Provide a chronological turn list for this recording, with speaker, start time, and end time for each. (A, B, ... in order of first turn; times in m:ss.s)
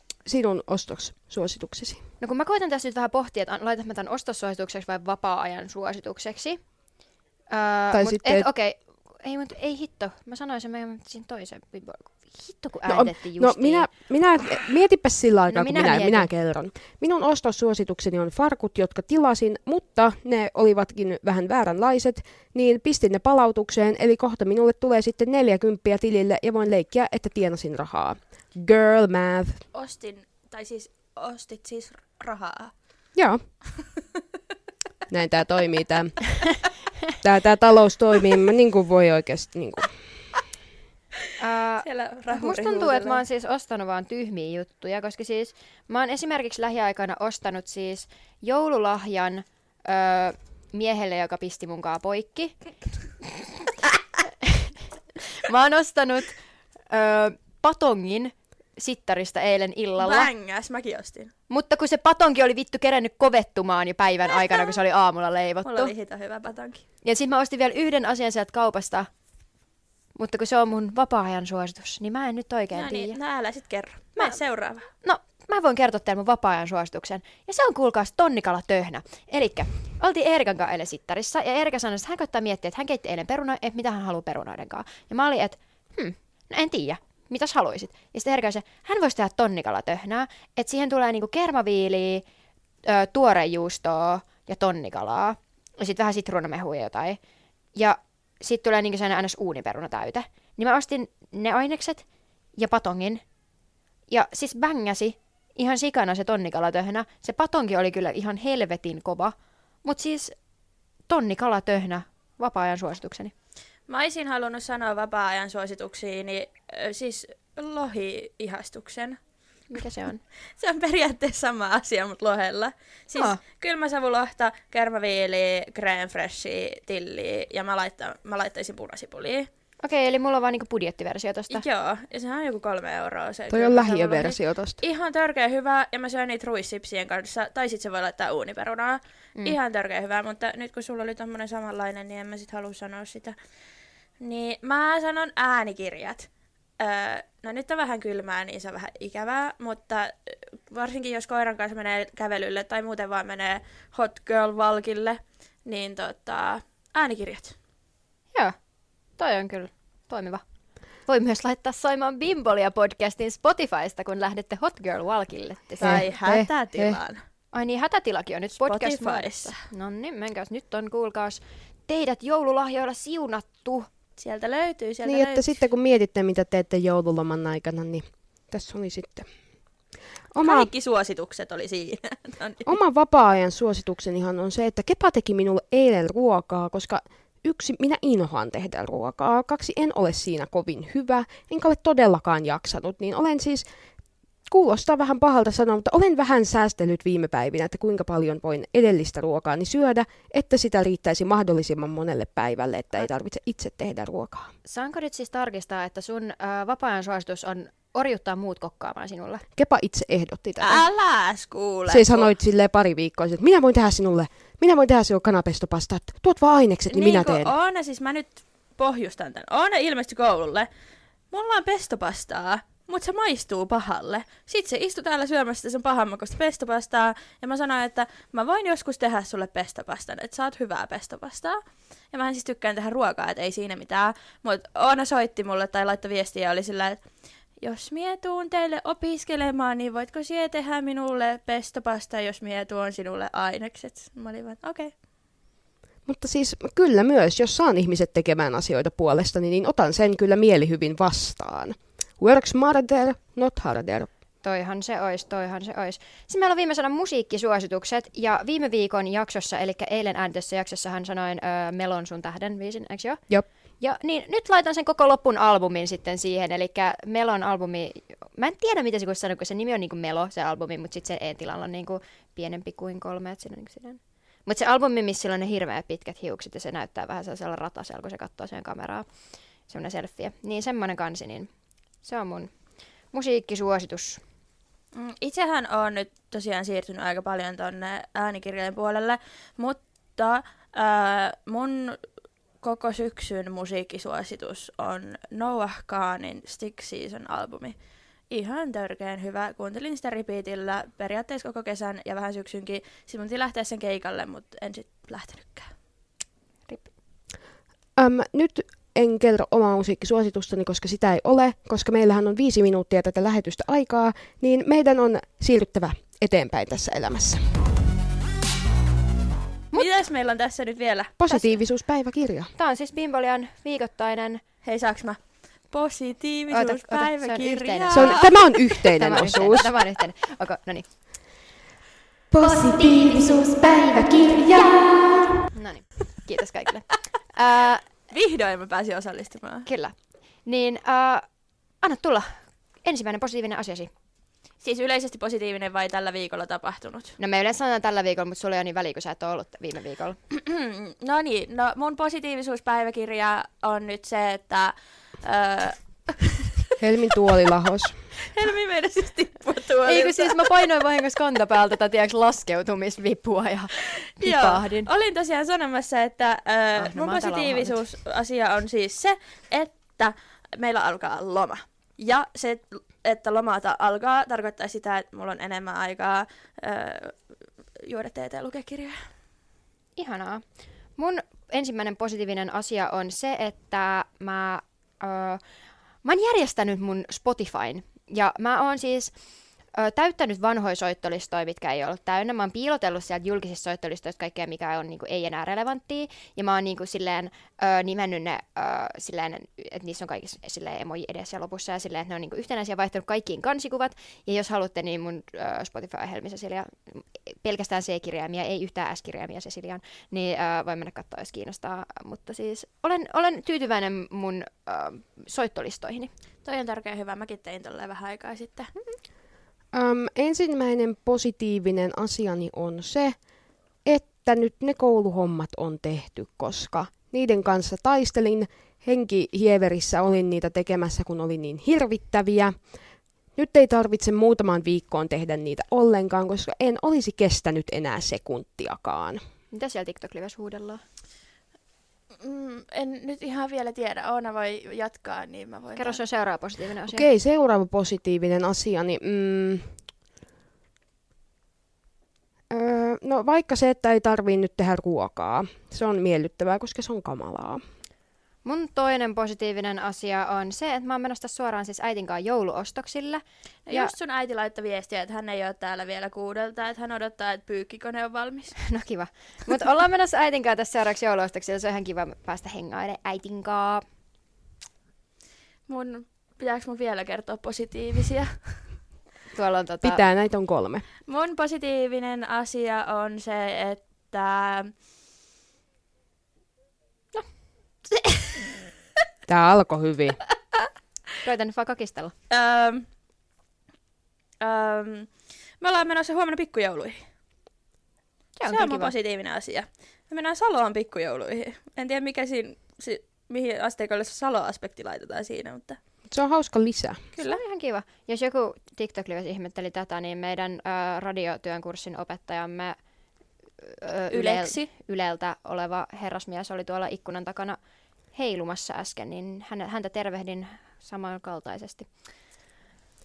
0:00.2-0:02.0 A
0:02.2-0:06.6 B
0:07.5-0:13.9 B
0:07.9-0:08.5 A
0:12.9-0:29.6 A
0:15.5-0:16.3 B
0:29.7-0:32.7 C
0:33.1-0:33.4 A
0:35.1-0:36.3 A
0:37.2-0:39.9 A
0:41.4-0:52.6 B
0:41.8-0:43.2 C
0:53.2-0:53.7 B
0:54.3-0:56.4 B
0:56.9-1:00.3 B
1:00.0-1:01.3 C
1:01.5-1:05.9 B
1:05.6-1:06.8 C
1:07.0-1:09.1 B
1:10.1-1:13.2 B
1:12.7-1:14.9 C
1:15.0-1:32.2 B
1:32.8-1:37.2 B
1:37.7-1:42.0 B
1:42.6-1:43.2 B
1:44.1-1:50.3 B
1:51.1-1:53.3 B
1:53.9-1:59.2 C
1:59.7-2:00.2 B
2:00.6-2:09.5 C
2:03.1-2:03.4 B
2:09.8-2:11.6 B
2:11.5-2:23.4 C
2:13.5-2:14.8 A
2:24.2-2:37.6 C
2:39.2-2:40.4 B
2:41.1-2:47.0 B
2:45.8-2:47.2 C
2:47.5-2:53.9 B
2:48.6-2:49.6 C
2:54.2-2:55.5 C
2:55.0-2:59.3 A
3:00.3-3:00.7 A
3:00.4-3:02.7 C
3:02.7-3:13.6 A
3:14.5-3:24.5 A
3:24.6-3:29.4 B
3:29.6-3:30.8 A
3:30.6-3:32.3 C
3:31.9-3:37.5 A
3:36.9-3:40.7 C
3:41.3-3:51.6 C
3:52.1-3:57.0 C
3:57.6-4:04.9 C
4:06.0-4:14.1 A
4:14.4-4:23.2 B
4:23.8-4:39.0 B
4:39.7-4:41.5 B
4:42.0-4:42.5 B
4:43.1-4:44.2 B
4:44.9-4:52.0 C
4:52.6-4:57.8 C
4:58.3-5:05.7 C
5:08.0-5:17.5 A
5:19.7-5:21.1 C
5:21.2-5:22.5 A
5:22.6-5:24.4 B
5:24.6-5:28.3 C
5:26.5-5:30.9 B
5:27.9-5:29.7 A
5:32.3-5:34.9 A
5:32.4-5:34.8 B
5:35.5-5:37.8 B
5:38.1-5:39.7 C
5:39.7-5:41.2 B
5:41.8-5:43.9 B
5:44.6-5:47.2 C
5:47.2-5:50.2 B
5:50.3-5:55.8 C
5:56.8-5:58.0 A
5:58.2-6:00.6 C
5:59.8-6:04.9 B
6:04.0-6:17.2 C
6:06.8-6:07.8 B
6:17.9-6:19.1 C
6:20.0-6:20.4 B
6:21.0-6:25.4 B
6:26.0-6:29.1 B
6:29.7-6:56.1 B
6:56.4-6:58.7 C
6:59.7-7:03.2 A
7:03.8-7:12.6 A
7:13.4-7:19.2 A
7:19.5-7:20.8 B
7:22.2-7:26.0 C
7:25.8-7:27.0 B
7:26.9-7:29.7 A
7:32.5-7:37.6 A
7:38.4-7:43.9 B
7:43.7-7:48.6 C
7:48.6-7:53.8 B
7:55.7-7:58.7 C
7:59.3-8:00.0 B
7:59.8-8:00.8 A
8:01.1-8:04.7 C
8:09.3-8:10.2 A
8:11.2-8:12.1 B
8:12.3-8:12.9 C
8:14.4-8:17.0 C
8:18.4-8:18.9 B
8:18.4-8:25.8 C
8:26.1-8:27.0 A
8:27.2-8:32.8 B
8:33.6-8:37.6 B
8:34.1-8:34.7 C
8:38.1-8:41.9 B